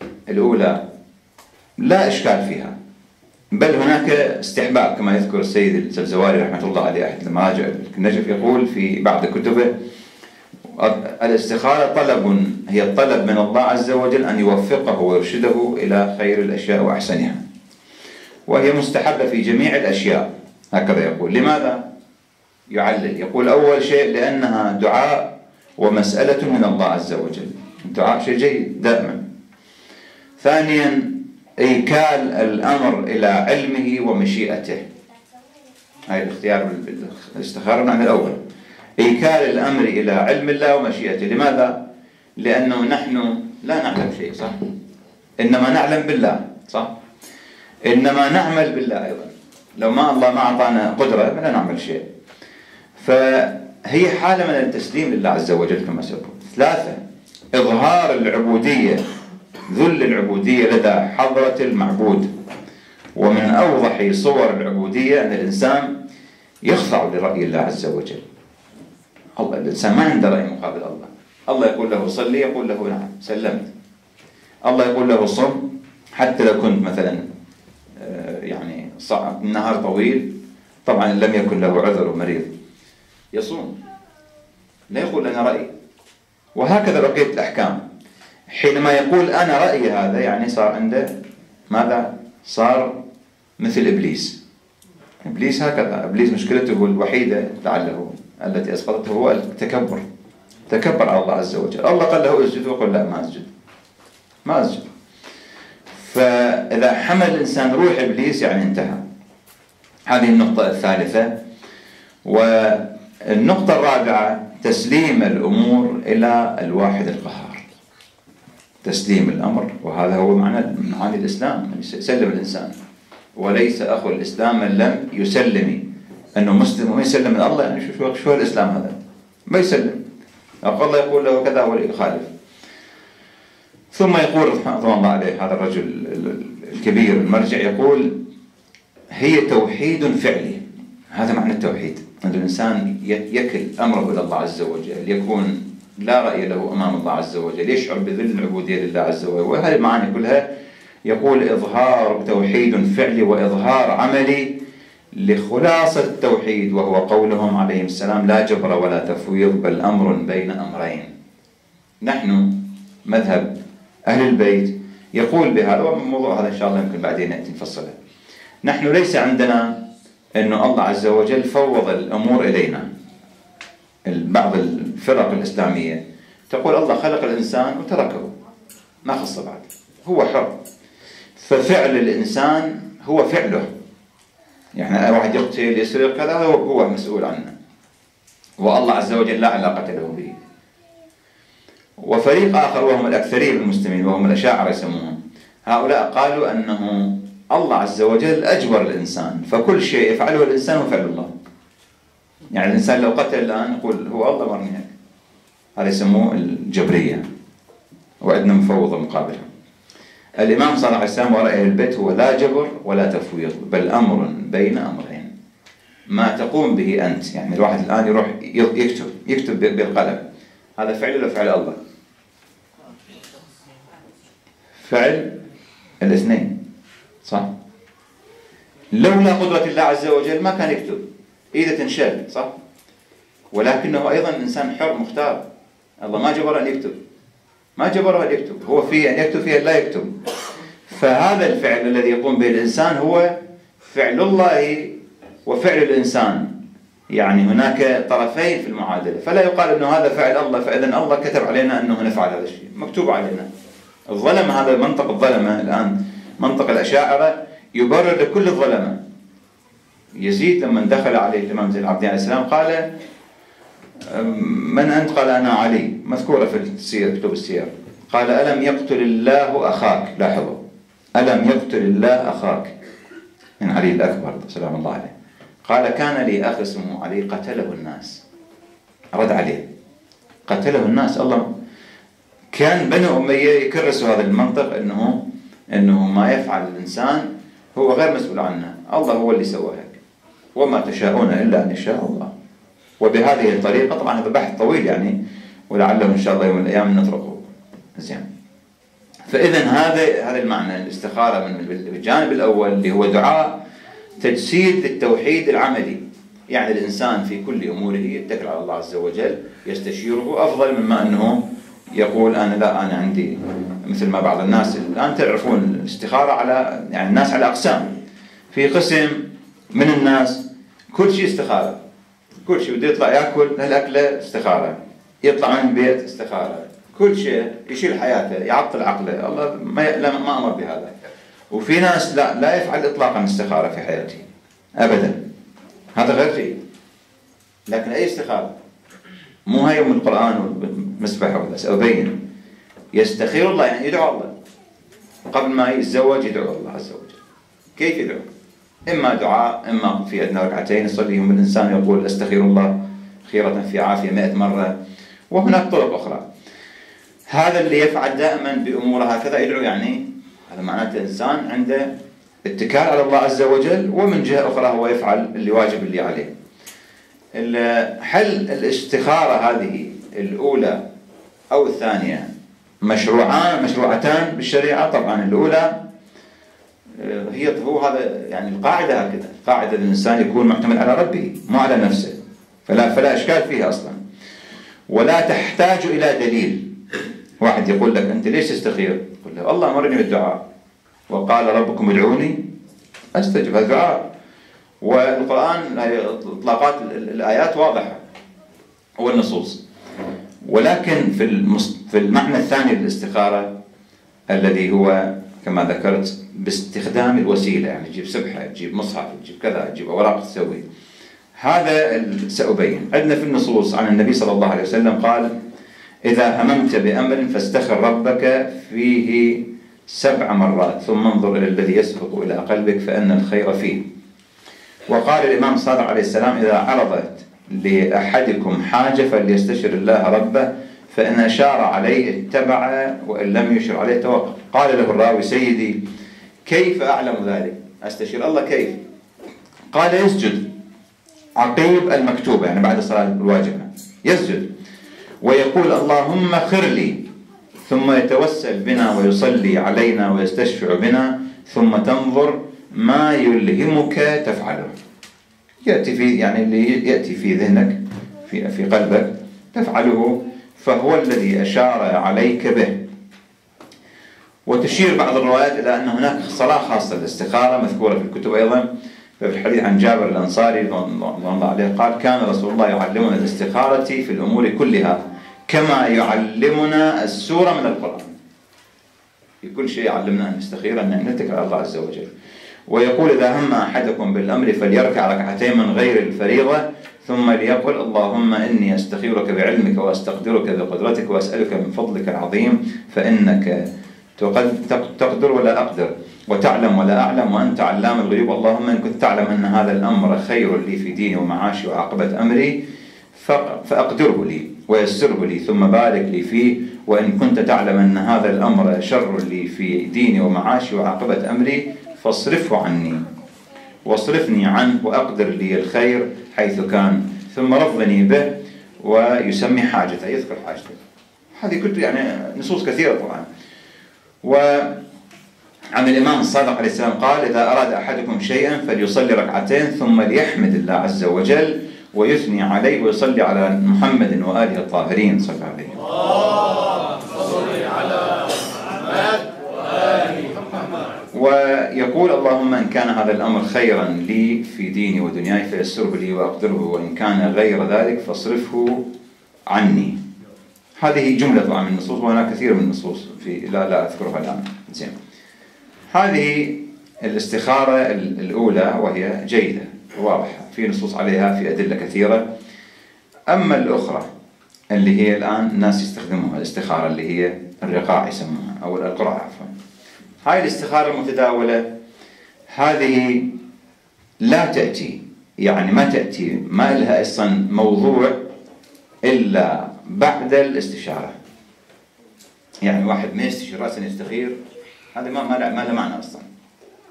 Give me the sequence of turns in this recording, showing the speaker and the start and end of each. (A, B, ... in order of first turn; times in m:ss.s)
0:00.3-0:00.8 A
0:01.8-0:02.7 A
0:03.5-0:09.7 A
0:10.7-0:17.4 A
0:18.5-0:21.8 A
0:22.7-0:29.2 A
0:30.4-0:34.8 A
0:36.1-0:38.4 A
0:39.0-0:41.8 A
0:42.4-0:44.6 A
0:45.4-0:46.9 A
0:47.8-0:52.0 A
0:53.0-0:57.0 A
0:57.5-0:59.0 A
0:59.7-1:02.3 A
1:03.2-1:05.9 A
1:06.6-1:08.2 A
1:09.4-1:13.7 A
1:14.6-1:15.6 A
1:16.2-1:17.2 A
1:18.0-1:20.3 A
1:20.8-1:22.5 A
1:23.3-1:23.8 A
1:24.9-1:25.7 A
1:26.5-1:27.8 A
1:28.5-1:31.1 A
1:31.7-1:33.0 A
1:33.6-1:34.4 A
1:35.2-1:40.0 A
1:40.7-1:43.5 A
1:44.4-1:44.8 A
1:46.0-1:49.0 A
1:50.1-1:51.4 A
1:52.2-1:57.6 A
1:58.8-2:02.7 A
2:03.4-2:05.8 A
2:06.4-2:09.0 A
2:09.5-2:10.0 A
2:10.6-2:12.3 A
2:13.9-2:18.2 A
2:19.1-2:30.4 A
2:31.0-2:34.6 A
2:35.1-2:41.1 A
2:42.0-2:43.5 A
2:44.1-2:48.0 A
2:48.6-2:49.8 A
2:50.4-2:52.9 A
2:54.0-2:58.3 A
2:59.0-3:00.6 A
3:01.4-3:03.7 A
3:04.7-3:07.5 A
3:08.6-3:10.4 A
3:12.0-3:21.3 A
3:22.5-3:24.9 A
3:25.8-3:27.2 A
3:28.2-3:29.5 A
3:30.4-3:35.3 A
3:36.1-3:40.2 A
3:40.8-3:41.8 A
3:44.8-3:45.4 A
3:46.0-3:46.5 A
3:47.2-3:47.5 A
3:48.9-3:51.0 A
3:51.5-3:52.5 A
3:53.5-3:55.4 A
3:56.0-3:56.9 A
3:57.8-4:00.1 A
4:00.8-4:03.3 A
4:03.9-4:04.9 A
4:05.4-4:06.5 A
4:07.1-4:13.5 A
4:14.1-4:19.0 A
4:20.2-4:22.8 A
4:24.0-4:30.6 A
4:31.2-4:32.7 A
4:33.6-4:35.1 A
4:35.6-4:38.2 A
4:39.1-4:39.6 A
4:40.5-4:41.5 A
4:42.5-4:45.2 A
4:45.7-4:50.0 A
4:50.6-4:52.3 A
4:53.0-4:55.1 A
4:55.7-4:58.2 A
4:59.3-5:03.6 A
5:04.2-5:06.0 A
5:06.5-5:17.9 A
5:18.5-5:21.8 A
5:22.4-5:30.9 A
5:31.5-5:34.2 A
5:34.8-5:35.2 A
5:36.0-5:36.6 A
5:37.7-5:38.5 A
5:39.4-5:42.2 A
5:42.9-5:44.3 A
5:45.3-5:47.2 A
5:47.8-5:48.2 A
5:48.9-5:54.7 A
5:55.3-5:56.2 A
5:57.3-6:01.9 A
6:02.4-6:06.3 A
6:07.4-6:10.8 A
6:11.5-6:12.3 A
6:12.8-6:15.8 A
6:16.9-6:22.1 A
6:22.6-6:24.0 A
6:24.9-6:26.7 A
6:27.4-6:30.4 A
6:31.1-6:32.4 A
6:33.1-6:34.1 A
6:34.8-6:38.0 A
6:39.0-6:39.6 A
6:40.4-6:43.5 A
6:44.3-6:50.6 A
6:51.4-6:55.3 A
6:56.0-7:03.8 A
7:04.9-7:15.8 A
7:16.4-7:18.8 A
7:19.7-7:20.4 A
7:21.4-7:24.5 A
7:25.2-7:27.0 A
7:27.7-7:34.7 A
7:35.6-7:42.8 A
7:44.4-7:48.7 A
7:49.2-7:58.1 A
7:59.4-8:02.1 A
8:02.7-8:13.6 A
8:14.2-8:22.6 A
8:23.1-8:33.0 A
8:33.8-8:40.8 A
8:41.4-8:43.3 A
8:44.2-8:44.8 A
8:45.7-8:55.8 A
9:01.1-9:08.8 A
9:09.5-9:10.0 A
9:10.8-9:14.9 A
9:15.9-9:22.3 A
9:23.3-9:24.1 A
9:24.7-9:29.5 A
9:30.2-9:31.6 A
9:32.5-9:33.3 A
9:34.2-9:38.2 A
9:39.0-9:41.1 A
9:42.6-9:44.4 A
9:45.0-9:46.2 A